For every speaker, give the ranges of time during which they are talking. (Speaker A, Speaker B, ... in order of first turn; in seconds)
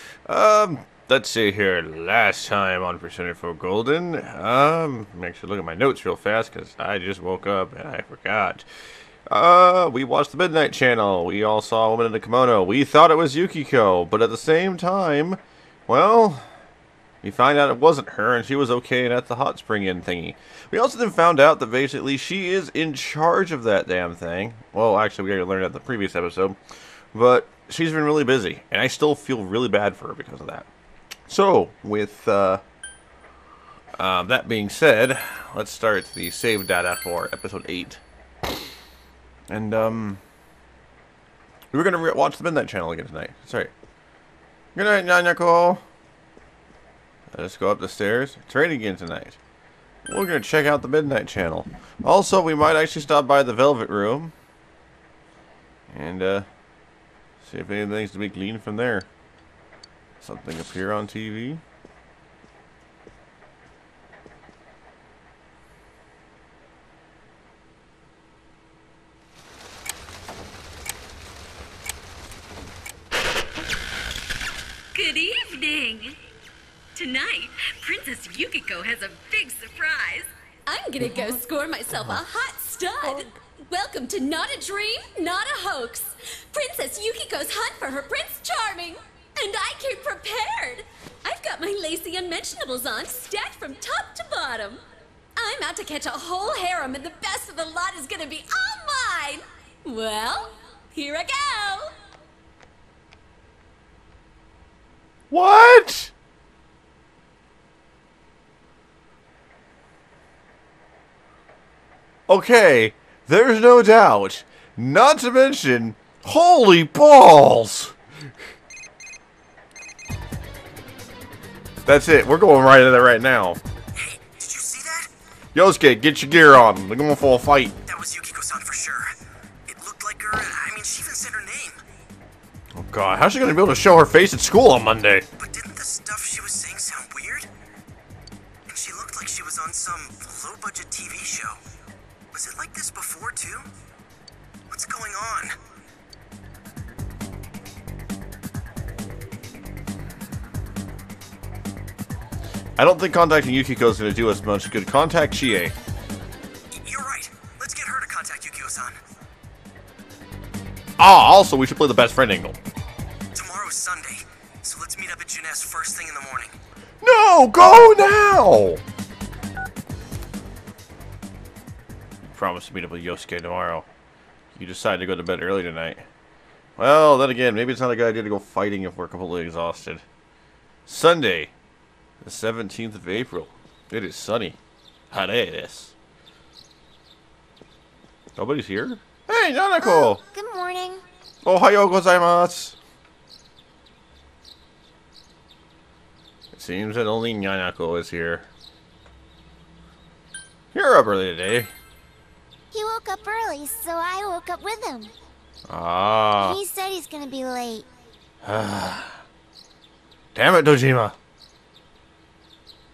Speaker A: 0.3-8.6, 9.3-16.5, 17.2-26.6, 27.1-30.7, 31.3-32.6, 34.0-38.0, 39.5-40.2, 41.7-43.7, 44.7-45.8, 47.3-49.4, 50.0-54.3, 55.9-56.5, 57.4-59.1, 60.2-61.6, 105.3-106.1, 112.3-117.9, 121.8-123.6, 125.5-127.7, 132.8-135.2, 152.8-155.7, 161.0-162.6, 167.0-168.8, 172.2-173.8, 174.5-176.0, 176.8-180.0, 180.8-181.5, 182.2-184.6, 185.1-185.9, 188.3-190.2, 191.4-192.8, 196.5-198.5, 200.7-201.7, 205.7-206.6, 208.4-209.2, 210.3-211.1
Speaker B: 74.9-76.2, 77.0-94.8, 95.4-101.9
Speaker C: 124.0-125.1, 127.9-129.1, 129.7-131.8, 135.4-137.5, 138.7-141.6, 142.3-143.7, 144.7-145.6, 156.7-159.0, 163.3-166.6
Speaker D: 189.8-191.0, 202.7-205.1, 206.4-207.8